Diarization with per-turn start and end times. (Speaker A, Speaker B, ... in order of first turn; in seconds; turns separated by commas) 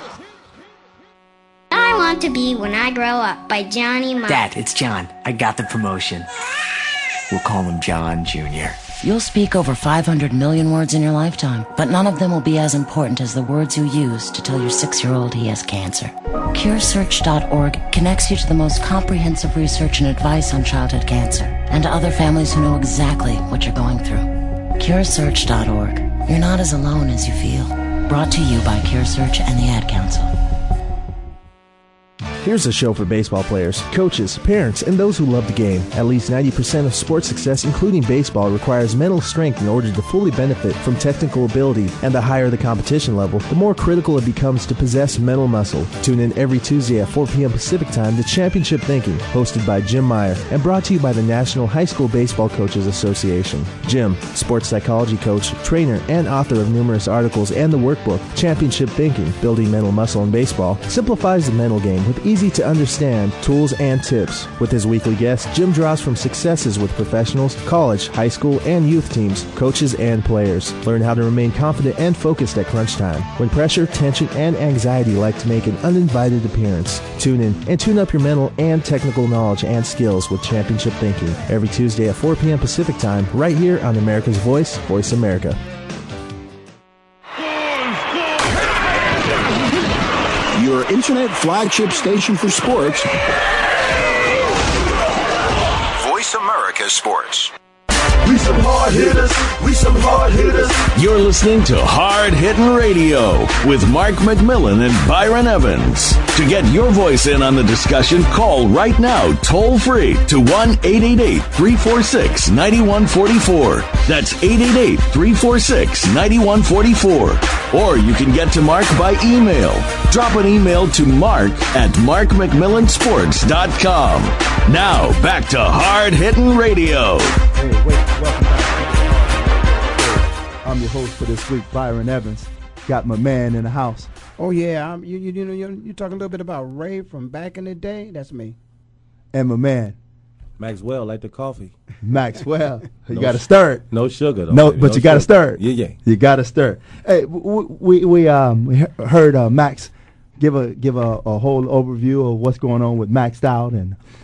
Speaker A: 1.7-4.4, Speaker B: 4.3-6.3, Speaker B: 7.3-8.8, Speaker C: 9.0-30.3, Speaker D: 32.4-85.6, Speaker E: 90.5-93.1, Speaker E: 96.5-96.8, Speaker F: 98.2-100.9, Speaker G: 100.9-127.3, Speaker H: 127.5-134.1, Speaker I: 134.4-138.6, Speaker H: 139.3-139.9, Speaker J: 140.6-141.7, Speaker H: 142.0-143.8, Speaker J: 143.1-145.9, Speaker H: 144.5-154.0